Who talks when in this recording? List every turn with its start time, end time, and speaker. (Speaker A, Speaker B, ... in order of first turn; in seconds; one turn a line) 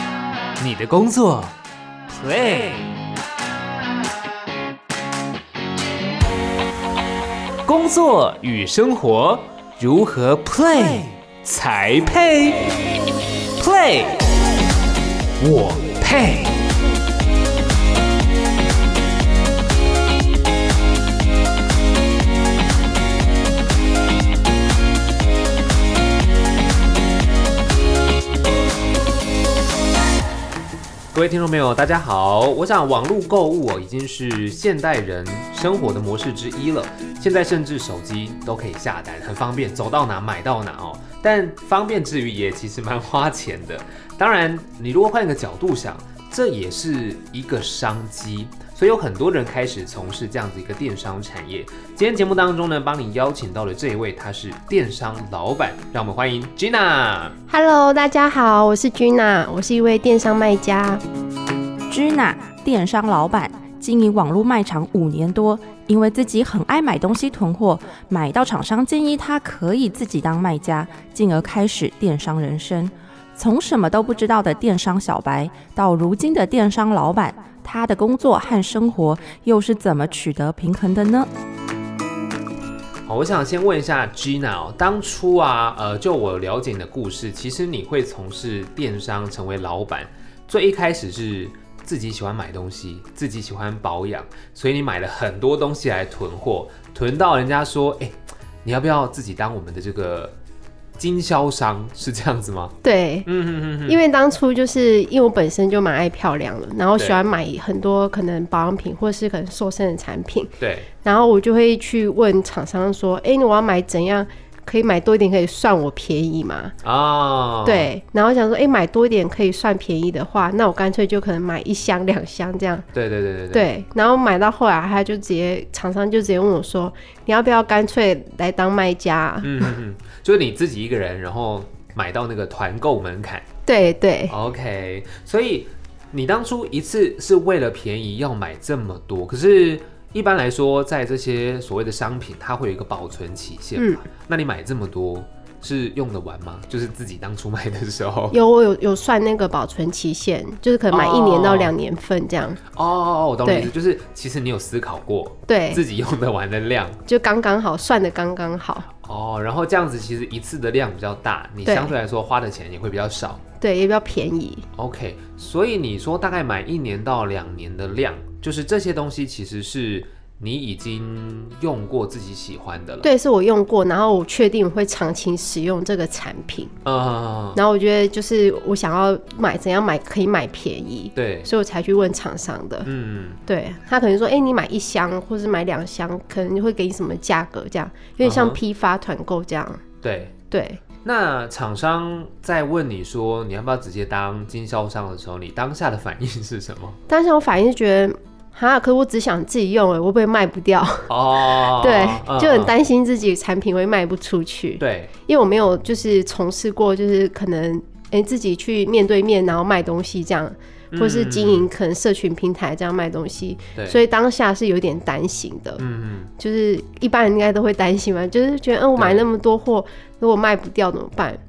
Speaker A: 0.6-1.5
Speaker A: 2.1-2.9
Speaker A: 7.6-12.9
Speaker A: 13.6-14.3
Speaker A: 15.4-16.6
Speaker A: 31.1-57.4
Speaker B: 57.5-61.0
Speaker C: 61.9-81.3
Speaker A: 83.0-100.3
Speaker A: 101.0-102.7
Speaker B: 102.8-103.3
Speaker A: 103.2-104.0
Speaker B: 103.8-116.7
Speaker A: 110.6-110.9
Speaker A: 116.8-117.9
Speaker B: 117.6-122.8
Speaker A: 122.9-123.7
Speaker B: 123.5-129.7
Speaker A: 129.4-133.4
Speaker B: 133.7-134.3
Speaker A: 134.3-148.4
Speaker B: 148.3-152.6
Speaker A: 150.9-151.7
Speaker A: 152.7-157.0
Speaker B: 153.4-153.7
Speaker B: 155.5-155.8
Speaker B: 157.1-158.9
Speaker A: 159.0-163.4
Speaker B: 161.6-161.9
Speaker B: 163.6-164.7
Speaker A: 164.8-173.1
Speaker B: 173.0-176.7
Speaker A: 176.8-177.6
Speaker B: 177.5-182.9
Speaker A: 181.2-181.5
Speaker A: 182.8-183.4
Speaker B: 183.4-189.8
Speaker A: 188.2-188.6
Speaker A: 190.0-190.3
Speaker B: 190.5-190.8
Speaker A: 191.0-197.0
Speaker B: 197.1-215.8
Speaker A: 201.1-202.7
Speaker A: 204.8-205.1
Speaker A: 210.9-211.7
Speaker A: 213.7-214.0
Speaker A: 215.8-216.3
Speaker B: 216.4-221.4
Speaker A: 218.9-219.2